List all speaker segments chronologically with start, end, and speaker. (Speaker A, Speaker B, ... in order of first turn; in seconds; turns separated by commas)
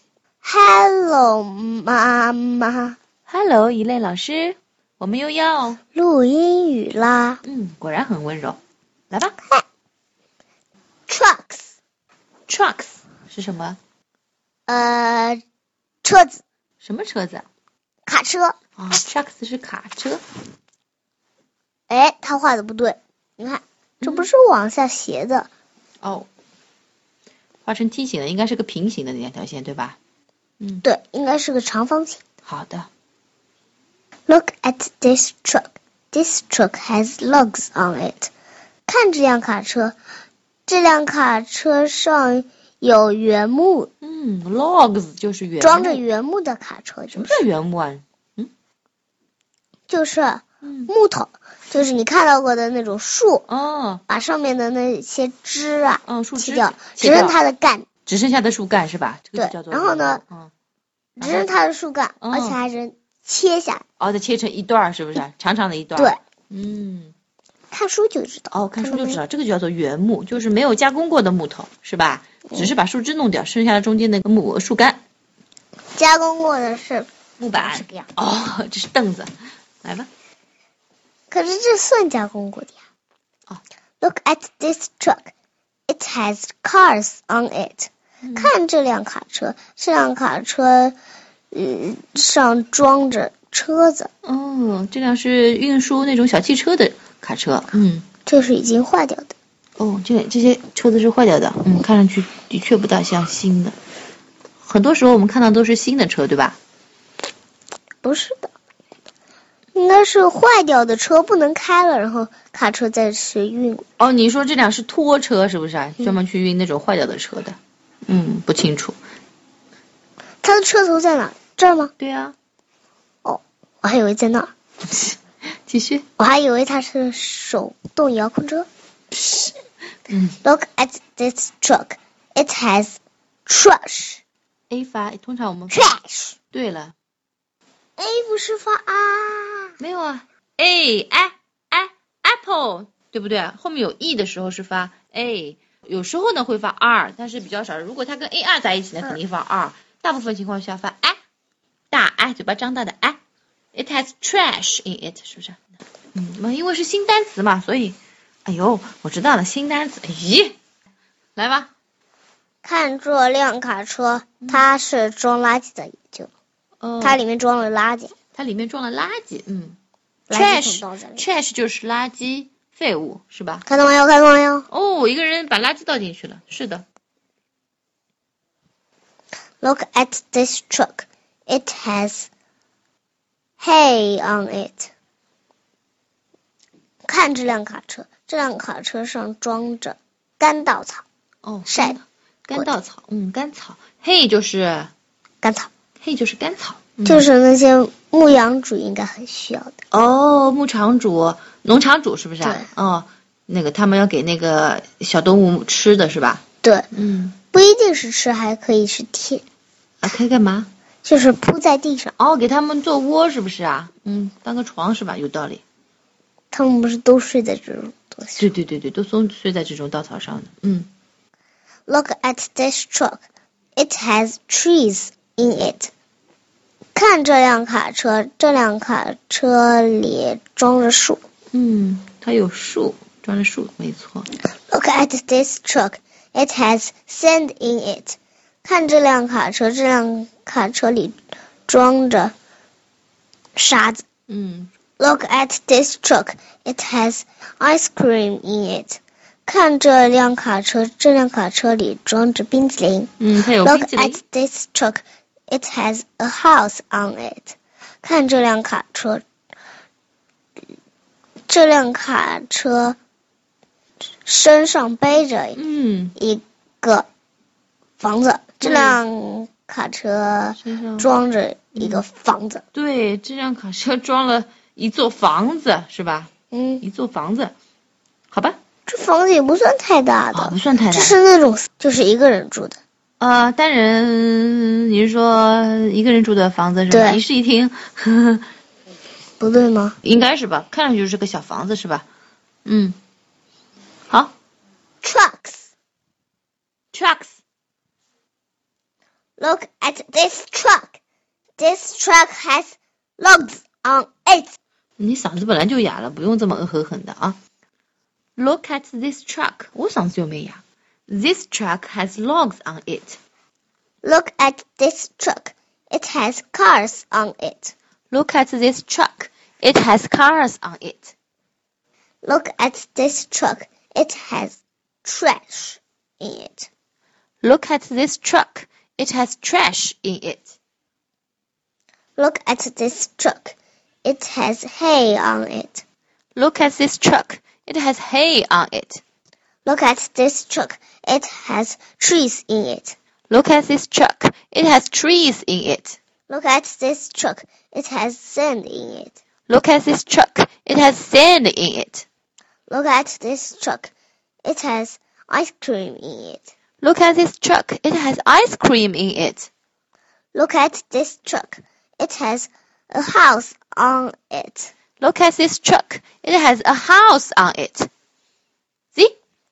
Speaker A: 0.4-3.0, Speaker B: 3.3-5.8, Speaker A: 5.9-7.4, Speaker B: 7.4-8.6, Speaker B: 9.1-9.4, Speaker A: 11.1-11.7, Speaker B: 12.5-13.8, Speaker A: 14.7-15.4, Speaker A: 16.0-16.4, Speaker B: 16.8-17.4, Speaker A: 18.1-18.6, Speaker B: 18.8-20.2, Speaker A: 21.9-25.5, Speaker B: 24.0-24.3, Speaker B: 26.0-26.3, Speaker B: 27.6-30.0, Speaker B: 30.6-30.8, Speaker A: 30.8-32.2, Speaker B: 32.5-32.9, Speaker A: 34.3-38.3, Speaker A: 38.9-39.9, Speaker A: 40.7-43.9, Speaker B: 44.0-46.0, Speaker A: 45.6-47.4, Speaker B: 47.1-48.5, Speaker A: 49.9-53.5, Speaker B: 50.6-50.9, Speaker B: 53.5-54.0, Speaker A: 54.1-57.9, Speaker B: 56.0-57.4, Speaker B: 58.0-60.5, Speaker A: 59.4-60.2, Speaker B: 61.2-61.5, Speaker A: 61.2-63.8, Speaker B: 62.2-62.6, Speaker B: 64.0-67.1, Speaker A: 67.7-69.2, Speaker B: 68.5-75.0, Speaker A: 76.0-78.1, Speaker B: 77.4-79.3, Speaker B: 79.8-80.1, Speaker A: 81.3-82.8, Speaker A: 84.0-85.3, Speaker A: 85.9-90.9, Speaker B: 88.2-88.5, Speaker A: 91.5-94.1, Speaker B: 94.2-98.0, Speaker A: 98.2-99.3, Speaker B: 99.8-103.8, Speaker B: 104.6-106.6, Speaker A: 108.0-108.5, Speaker A: 109.7-113.8, Speaker B: 114.0-119.0, Speaker A: 120.4-121.9, Speaker B: 122.0-122.3, Speaker A: 123.2-124.5, Speaker B: 124.9-125.2, Speaker B: 125.7-126.0, Speaker A: 126.2-128.7, Speaker B: 129.1-129.5, Speaker B: 130.1-130.4, Speaker A: 130.4-134.2, Speaker B: 134.7-135.8, Speaker A: 135.7-136.4, Speaker B: 136.5-136.9, Speaker A: 138.0-139.7, Speaker B: 139.8-151.2, Speaker B: 151.9-153.2, Speaker B: 153.7-155.6, Speaker B: 156.1-160.6, Speaker B: 161.3-161.7, Speaker A: 162.6-166.3, Speaker B: 166.8-167.2, Speaker A: 167.0-168.1, Speaker B: 168.3-169.8, Speaker A: 170.3-171.2, Speaker B: 170.3-173.6, Speaker A: 173.7-174.7, Speaker B: 174.7-176.8, Speaker A: 179.6-182.3, Speaker A: 183.6-184.9, Speaker A: 187.0-191.0, Speaker B: 191.4-194.9, Speaker A: 191.7-192.0, Speaker A: 195.4-195.7, Speaker B: 196.0-197.3, Speaker A: 197.0-199.8, Speaker B: 199.9-207.3, Speaker A: 202.4-202.7, Speaker A: 207.5-209.4, Speaker B: 210.0-210.7, Speaker A: 211.0-212.1, Speaker B: 212.2-215.6, Speaker A: 216.5-218.5, Speaker B: 218.4-220.9, Speaker A: 221.9-223.2, Speaker A: 223.8-225.9, Speaker A: 226.9-231.2, Speaker B: 231.5-234.3, Speaker A: 234.7-242.3, Speaker A: 243.6-244.0, Speaker B: 244.3-244.7, Speaker A: 245.0-259.2, Speaker B: 253.2-254.2, Speaker A: 261.5-263.0, Speaker A: 264.2-265.6, Speaker B: 265.5-266.1, Speaker A: 266.2-267.1, Speaker A: 268.0-272.6, Speaker B: 268.6-269.0, Speaker B: 270.6-271.1, Speaker B: 271.8-272.0, Speaker B: 272.7-276.3, Speaker A: 276.5-276.8, Speaker B: 276.8-277.5, Speaker B: 278.3-278.6, Speaker A: 278.9-282.8, Speaker B: 280.3-281.2, Speaker B: 283.2-288.5, Speaker A: 286.9-287.2, Speaker A: 289.4-290.0, Speaker B: 290.0-292.1, Speaker B: 292.6-293.0, Speaker A: 295.0-295.7, Speaker B: 296.9-297.4, Speaker A: 299.4-301.0, Speaker A: 301.6-304.6, Speaker B: 305.0-307.4, Speaker B: 308.4-313.2, Speaker A: 314.0-317.7, Speaker B: 318.1-321.1, Speaker A: 322.2-326.7, Speaker B: 327.4-330.6, Speaker A: 332.2-335.8, Speaker B: 336.4-339.0, Speaker A: 339.6-342.9, Speaker B: 343.3-346.0, Speaker A: 346.3-349.1, Speaker B: 349.5-352.1, Speaker A: 352.7-353.9, Speaker A: 354.4-356.5, Speaker B: 356.8-359.5, Speaker A: 360.3-364.7, Speaker B: 365.0-367.9